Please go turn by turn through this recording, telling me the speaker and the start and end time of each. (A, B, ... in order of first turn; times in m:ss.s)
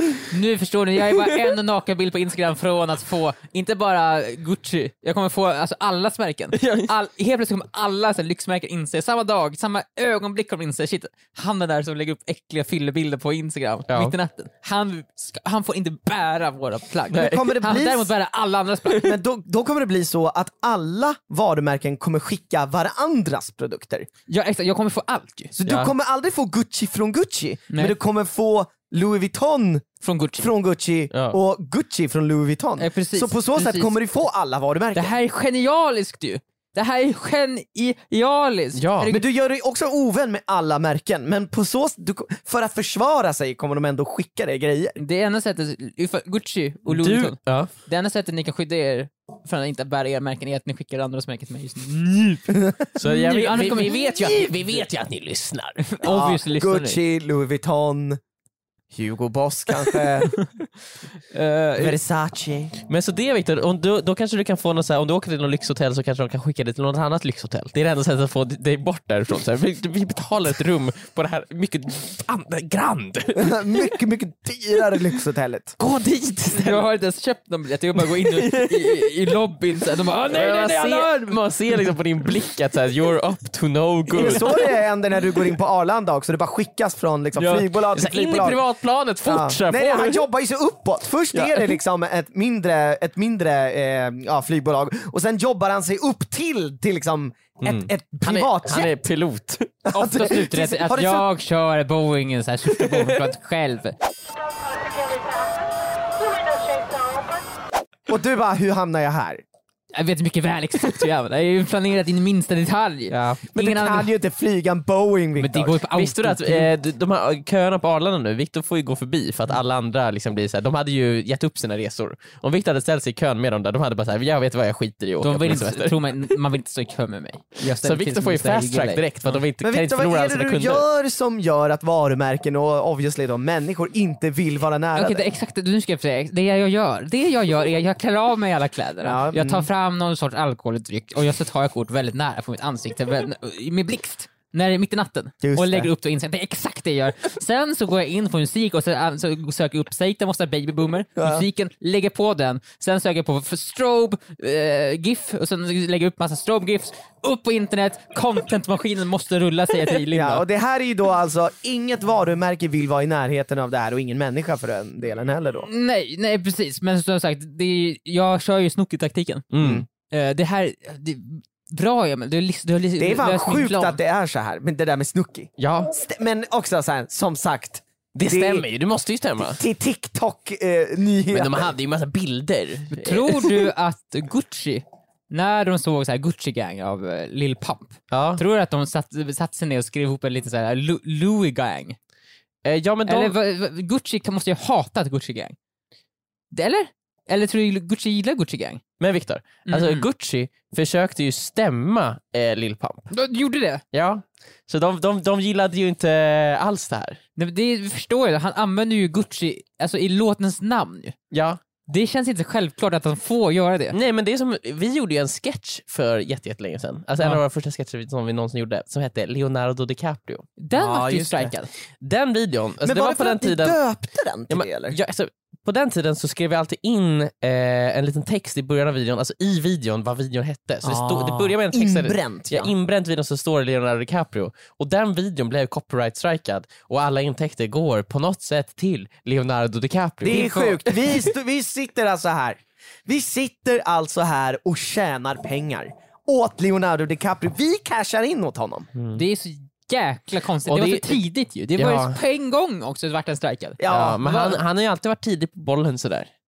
0:00.3-0:19.1 A
0:06.5-0:06.9 B
0:13.9-0:14.2 B
0:17.1-0:17.6 B
0:17.2-0:18.1 C
0:19.0-0:24.1 C
0:24.3-0:25.6 A
0:25.5-0:29.9 C
0:25.6-0:25.9 B
0:27.7-0:28.0 A
0:30.0-0:30.5 A
0:30.4-0:35.1 C
0:31.1-0:31.4 B
0:32.8-0:34.0 A
0:34.9-0:39.2 A
0:38.8-0:39.2 B
0:39.1-0:45.0 C
0:45.0-0:54.6 A
0:46.9-0:47.7 B
0:53.0-0:55.8 B
0:55.8-0:57.0 A
0:56.0-0:58.2 C
0:58.9-1:00.4 C
1:01.3-1:02.0 A
1:01.8-1:02.7 C
1:02.8-1:14.0 B
1:13.4-1:15.8 C
1:15.8-1:16.9 B
1:16.5-1:21.4 A
1:18.0-1:19.2 B
1:20.1-1:24.7 B
1:24.1-1:28.6 C
1:24.2-1:24.6 A
1:27.4-1:30.2 B
1:29.2-1:38.9 C
1:31.3-1:31.8 B
1:37.6-1:39.8 B
1:39.8-1:41.3 C
1:40.0-1:44.0 A
1:42.8-1:43.1 B
1:48.1-1:49.4 C
1:49.9-1:54.1 A
1:53.1-1:53.4 B
1:53.5-1:55.8 C
1:55.4-1:56.7 A
1:56.0-2:06.3 B
2:05.2-2:09.4 A
2:07.6-2:10.8 B
2:09.6-2:15.2 C
2:15.0-2:40.4 A
2:19.0-2:19.7 C
2:25.4-2:25.9 C
2:31.2-2:31.4 C
2:40.1-2:45.7 C
2:45.6-2:49.5 A
2:49.5-2:49.8 B
2:49.6-2:49.9 C
2:50.1-2:54.0 A
2:53.0-2:58.6 C
2:55.6-2:55.9 B
2:58.2-2:59.6 B
2:59.5-3:01.7 C
3:01.3-3:03.7 B
3:02.9-3:12.0 A
3:08.1-3:08.4 B
3:12.6-3:13.4 B
3:13.1-3:15.6 A
3:16.5-3:18.8 A
3:19.0-3:23.1 B
3:19.7-3:20.1 A
3:23.1-3:23.8 A
3:23.9-3:27.2 B
3:27.4-3:31.2 A
3:31.3-3:31.6 B
3:31.9-3:34.0 A
3:33.9-3:40.5 B
3:40.6-3:41.7 A
3:40.8-3:41.5 C
3:42.0-3:43.8 B
3:42.8-3:45.0 C
3:44.5-4:01.0 B
3:50.8-3:52.7 C
4:00.2-4:08.9 C
4:00.3-4:00.7 A
4:09.0-4:09.2 B
4:09.1-4:13.8 A
4:10.7-4:11.2 B
4:11.8-4:12.2 B
4:13.8-4:14.6 C
4:13.9-4:16.3 B